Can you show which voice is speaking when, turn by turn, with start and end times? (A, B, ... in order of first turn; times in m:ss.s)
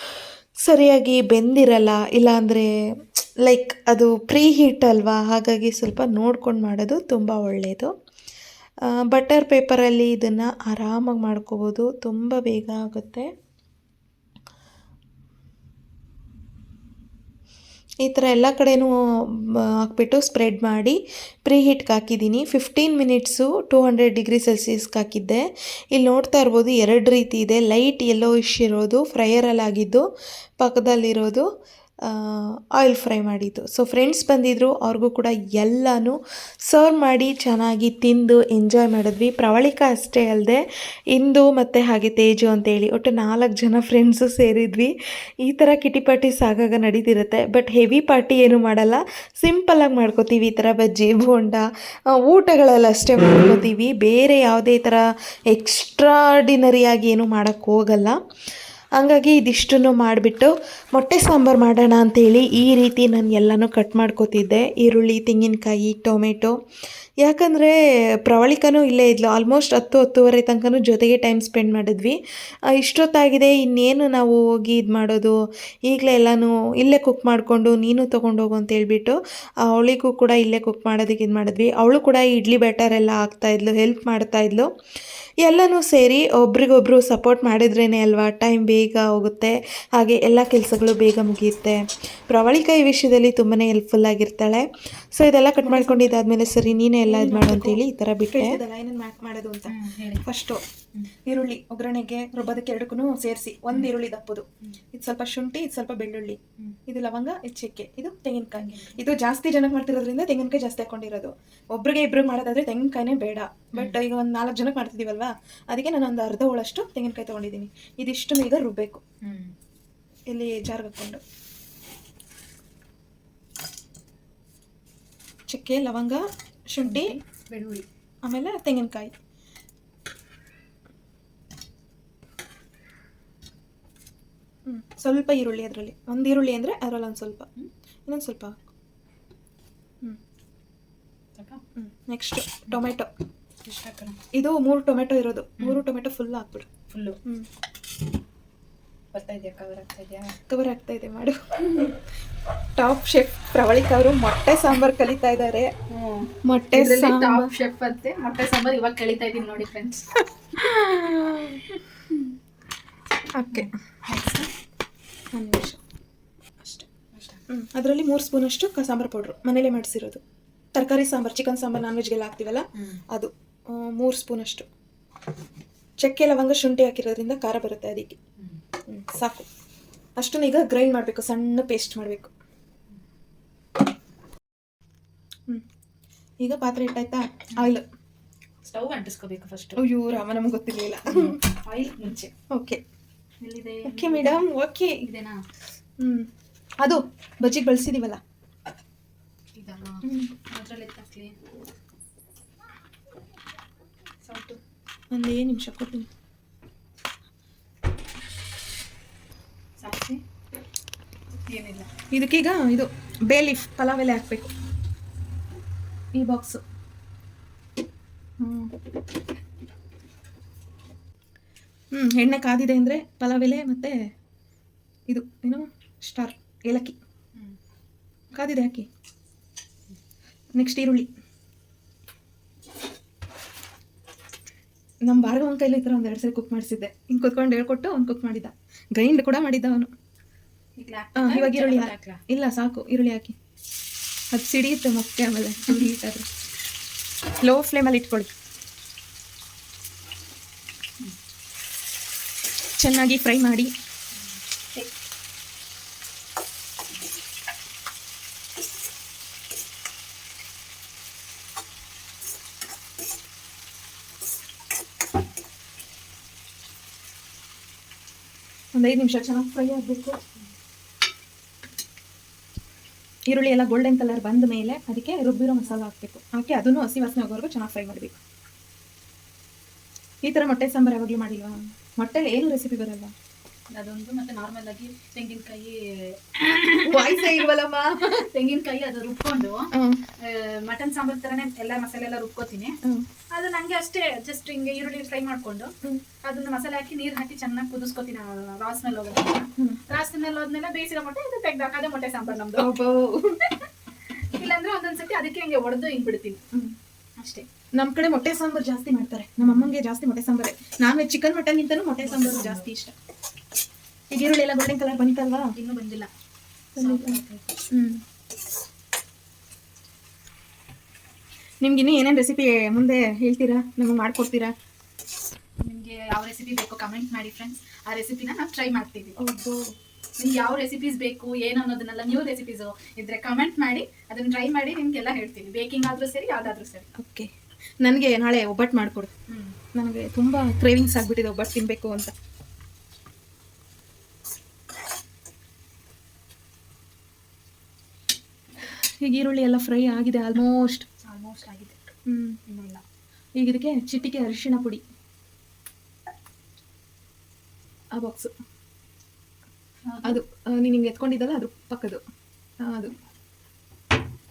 0:00.6-0:02.7 A
0:03.4-0:07.9 A
0:08.9-0:13.3 A
0:18.0-0:18.9 A
0:19.8-0:30.0 A
0:30.6-0:31.4 A
0:32.0-0:40.6 A
0:41.1-0:44.9 A
0:45.4-0:58.2 A
0:59.0-1:06.5 A
1:07.2-1:12.2 A
1:12.7-1:24.7 A
1:25.4-1:38.6 A
1:35.6-1:36.1 B
1:37.0-1:40.6 B
1:39.6-1:40.2 C
1:41.2-1:59.0 B
1:48.6-1:49.0 C
1:59.2-1:59.5 C
2:00.3-2:01.2 B
2:05.5-2:07.1 B
2:06.8-2:07.8 C
2:08.2-2:09.1 B
2:14.6-2:17.5 B
2:18.1-2:18.6 B
2:21.3-2:21.6 C
2:21.8-2:23.1 B
2:23.6-2:24.2 C
2:24.3-2:26.7 B
2:26.9-2:27.2 C
2:29.1-2:30.3 C
2:30.5-2:32.0 B
2:32.8-2:35.7 B
2:35.9-2:40.0 C
2:36.4-2:37.5 B
2:40.6-2:41.6 B
2:43.3-2:43.7 B
2:43.5-2:44.5 C
2:45.3-2:45.8 B
2:47.1-2:47.4 C
2:47.5-2:50.2 B
2:50.7-2:54.7 B
2:56.0-2:58.2 B
2:58.9-2:59.4 B
3:00.2-3:02.3 B
3:06.4-3:07.8 B
3:08.6-3:09.8 C
3:09.8-3:11.4 B
3:11.1-3:12.3 C
3:12.5-3:12.8 B
3:13.4-3:14.5 C
3:13.8-3:15.0 B
3:15.0-3:15.4 C
3:16.0-3:16.3 B
3:16.8-3:18.2 B
3:19.5-3:21.3 C
3:20.0-3:20.3 B
3:24.2-3:24.6 C
3:25.1-3:26.1 B
3:29.8-3:30.2 C
3:31.3-3:31.9 C
3:32.1-3:34.5 B
3:36.1-3:36.6 B
3:38.4-3:38.7 B
3:41.9-3:43.9 B
3:45.1-3:46.9 B
3:48.3-3:48.8 B
3:50.5-3:51.1 B
3:55.0-3:59.9 B
4:00.8-4:02.2 C
4:01.2-4:03.3 B
4:04.3-4:06.2 B
4:07.4-4:08.3 B
4:12.8-4:13.7 B
4:14.1-4:14.9 C
4:28.7-4:30.2 B
4:33.3-4:38.2 B
4:40.2-4:43.1 B
4:43.7-4:47.5 C
4:46.8-4:48.2 B
4:48.2-4:52.8 C
4:49.7-4:50.0 B
4:53.3-5:02.7 C
5:02.6-5:03.5 B
5:04.1-5:06.4 C
5:07.2-5:07.4 C
5:07.8-5:12.9 B
5:09.4-5:09.7 C
5:12.0-5:12.6 C
5:14.1-5:15.5 B
5:15.5-5:16.1 C
5:16.8-5:17.5 C
5:16.8-5:17.2 B
5:17.7-5:18.0 B
5:21.6-5:24.5 B
5:25.6-5:29.1 C
5:29.2-5:29.7 B
5:30.2-5:36.9 C
5:37.0-5:37.3 B
5:37.8-5:39.1 B
5:39.3-5:39.6 C
5:39.7-5:42.1 B
5:48.7-5:50.8 B
5:51.0-5:51.9 C
5:52.0-5:52.4 B
5:52.5-5:52.8 C
5:53.4-5:54.8 B
5:57.9-5:58.3 B
5:59.9-6:00.2 C
6:00.0-6:02.0 B
6:02.6-6:02.9 B